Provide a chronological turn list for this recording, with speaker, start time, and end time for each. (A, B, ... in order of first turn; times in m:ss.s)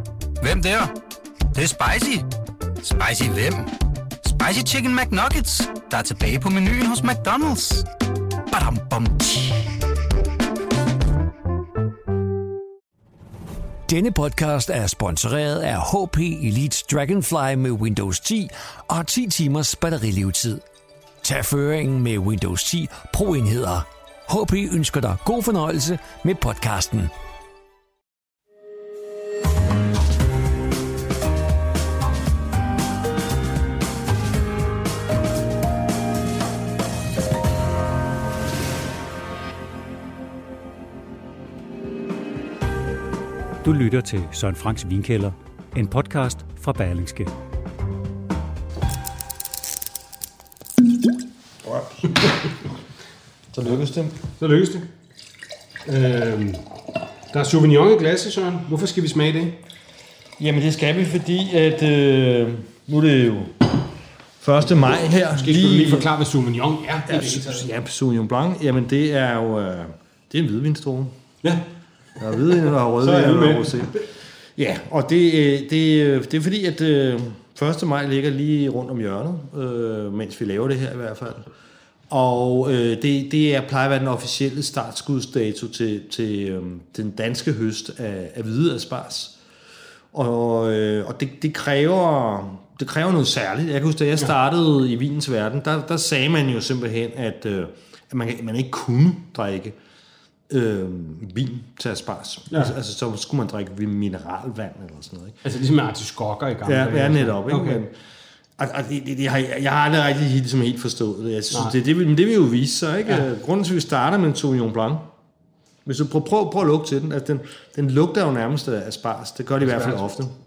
0:00.4-0:00.9 A
0:01.5-0:02.3 A
0:02.8-0:07.9 A
0:08.5-0:09.7 A
0:13.9-0:20.6 B
0:21.2-0:27.1 B
0:43.6-0:47.3 C
0:51.6-0:52.3 D
0:53.5-0:54.2 D
0:54.4-0:54.9 E
0:55.9-0:56.7 E
0:57.3-0:59.6 E
1:00.4-1:03.7 D
1:04.4-1:06.1 D
1:05.2-1:07.7 E
1:07.1-1:11.2 D
1:12.2-1:21.5 D
1:13.0-1:14.0 E
1:22.1-1:29.4 D
1:30.1-1:39.8 D
1:40.5-1:45.4 D
1:45.4-1:47.8 E
1:46.6-1:47.9 D
1:48.6-1:55.1 D
1:55.8-2:00.3 D
1:59.6-2:00.1 E